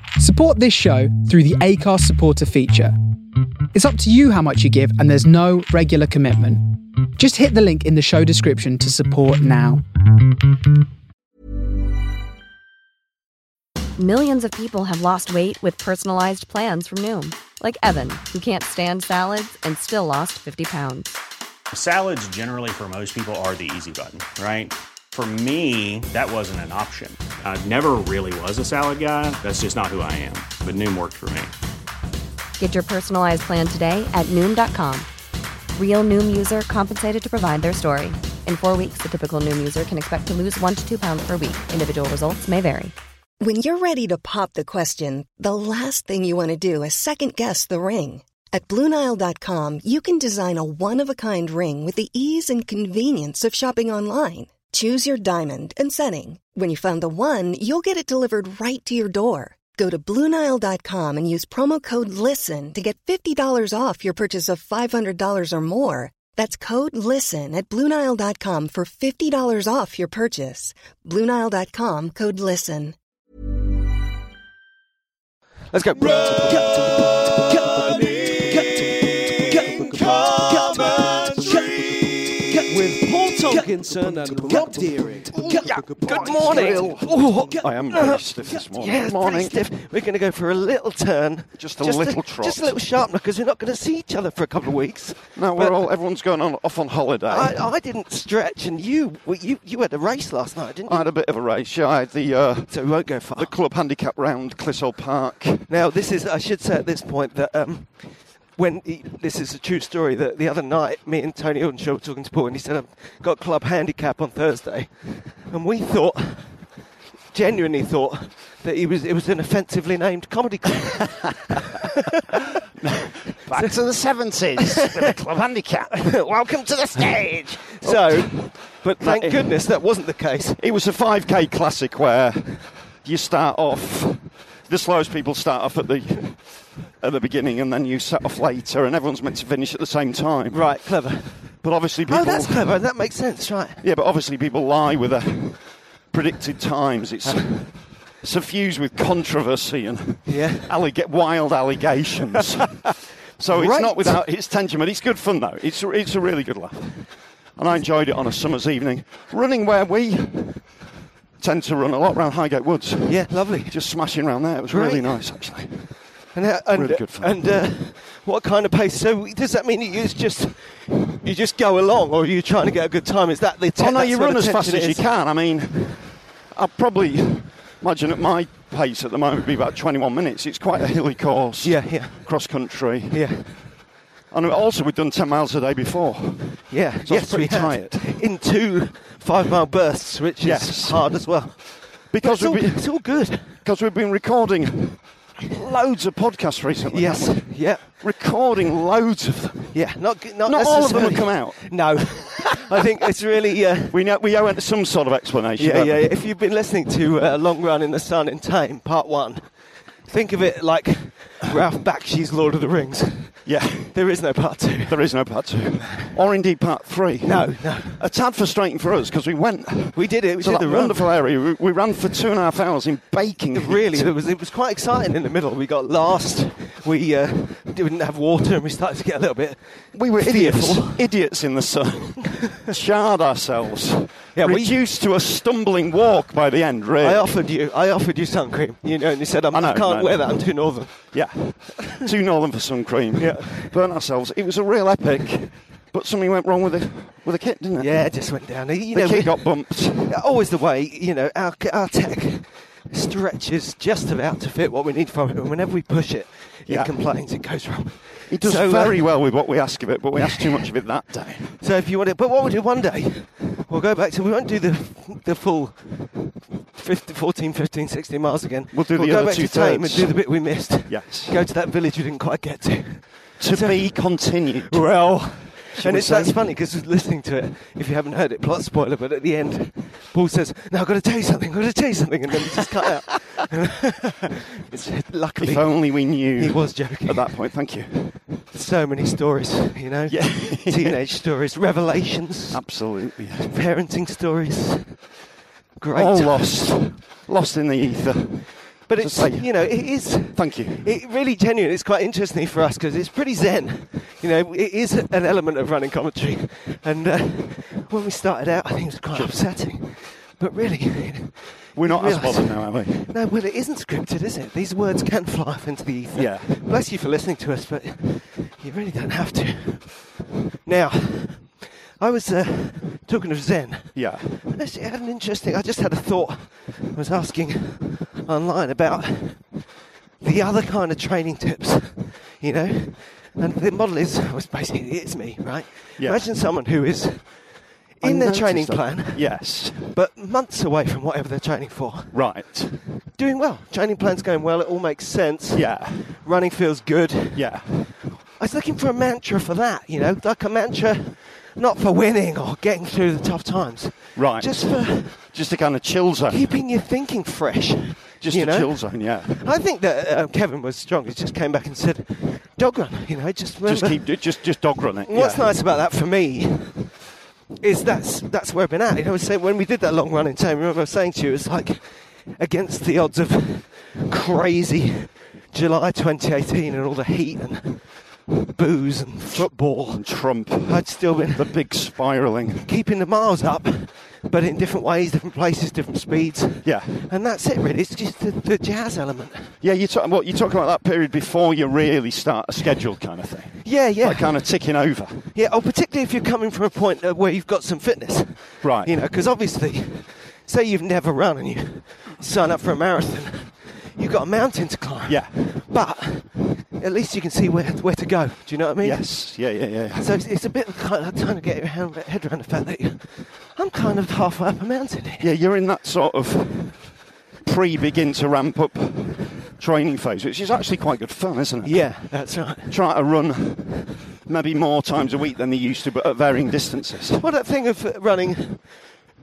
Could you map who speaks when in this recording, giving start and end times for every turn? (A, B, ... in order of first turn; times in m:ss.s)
0:00.2-0:02.9 A
0:03.7-0:06.6 A
0:07.2-0:09.8 A
0:14.0-0:21.2 B
0:21.7-0:31.5 C
0:32.6-0:35.1 B
0:35.7-0:42.9 B
0:43.4-1:12.9 D
1:15.7-1:35.8 E
1:24.5-1:29.7 F
1:31.6-1:32.7 F
1:35.3-1:37.6 F
1:37.3-1:41.1 E
1:40.9-1:45.7 F
1:42.7-1:43.6 E
1:45.7-1:56.8 E
1:57.3-2:02.4 E
2:02.8-2:09.7 F
2:03.4-2:03.8 E
2:04.6-2:05.1 E
2:06.1-2:10.6 E
2:10.6-2:20.9 F
2:20.5-2:23.8 E
2:21.5-2:22.8 F
2:23.8-2:40.8 F
2:27.2-2:27.6 E
2:30.2-2:30.7 E
2:33.5-2:34.2 E
2:41.4-2:46.0 F
2:43.0-2:44.0 E
2:44.7-2:45.2 E
2:46.3-2:55.1 E
2:46.7-2:47.4 F
2:53.8-3:03.7 F
3:01.6-3:03.8 E
3:04.3-3:08.1 F
3:06.7-3:13.6 E
3:10.4-3:22.8 F
3:16.9-3:17.9 E
3:19.7-3:24.0 E
3:23.9-3:26.1 F
3:25.6-3:35.4 E
3:33.4-3:34.1 F
3:34.8-3:44.1 F
3:37.2-3:38.0 E
3:39.9-3:41.2 E
3:43.5-3:51.3 E
3:49.9-3:57.3 F
3:54.3-3:54.8 E
3:57.0-4:01.4 E
3:59.5-4:10.2 F
4:03.2-4:03.8 E
4:07.8-4:19.3 E
4:16.7-4:17.0 F
4:18.3-4:21.6 F
4:20.2-4:20.6 E
4:21.6-4:47.4 E
4:28.7-4:31.4 F
4:33.4-4:36.5 F
4:45.4-4:48.4 F
4:48.5-4:52.8 E
4:50.1-4:51.0 F
4:52.5-4:53.5 F
4:53.4-4:55.1 E
4:55.8-4:56.6 E
4:55.9-5:01.0 F
4:58.9-5:29.6 E
5:11.7-5:13.0 F
5:16.1-5:16.6 F
5:23.9-5:24.3 F
5:30.2-5:42.4 E
5:36.0-5:36.3 F
5:38.0-5:39.9 F
5:42.1-5:42.8 F
5:43.1-5:47.7 E
5:45.5-5:46.2 F
5:47.3-5:48.0 F
5:48.3-5:55.2 E
5:54.1-5:56.6 F
5:56.3-6:07.0 E
5:58.2-5:59.4 F
6:03.6-6:05.5 F
6:07.6-6:21.7 E
6:19.9-6:22.7 F
6:22.6-6:29.5 E
6:26.6-6:27.0 F
6:29.6-6:35.3 F
6:33.6-6:34.5 E
6:35.3-6:55.3 E
6:38.6-6:39.0 F
6:45.1-6:45.4 F
6:48.8-6:50.1 F
6:55.2-7:07.2 F
7:01.6-7:02.8 E
7:07.1-7:09.0 E